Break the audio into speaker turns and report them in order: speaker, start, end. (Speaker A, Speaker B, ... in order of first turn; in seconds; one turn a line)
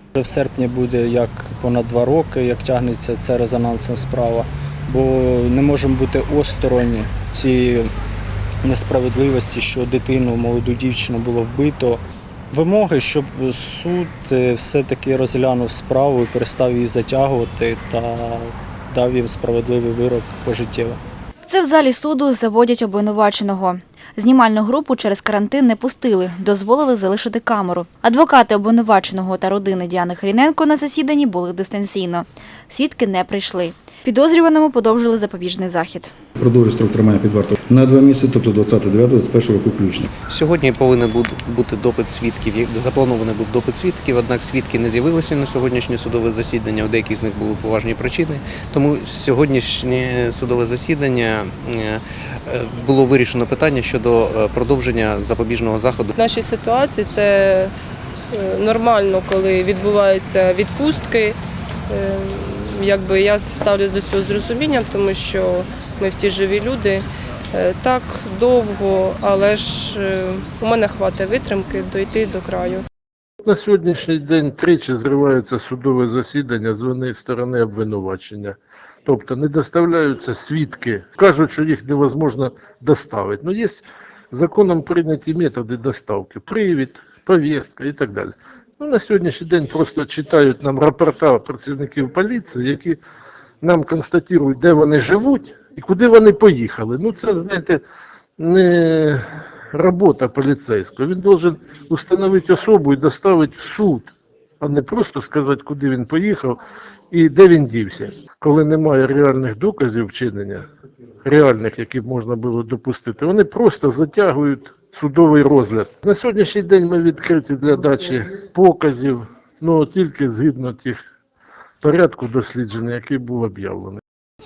Speaker A: 0.1-7.9
Speaker A: 8.6-21.0
Speaker B: 21.5-36.1
Speaker C: 36.4-40.1
Speaker D: 40.3-56.1
Speaker E: 56.1-57.7
Speaker E: 58.3-61.4
Speaker E: 61.9-72.8
Speaker F: 73.4-93.0
Speaker F: 93.6-97.8
Speaker F: 98.4-106.6
Speaker F: 107.1-110.6
Speaker F: 111.2-121.0
Speaker F: 121.8-124.0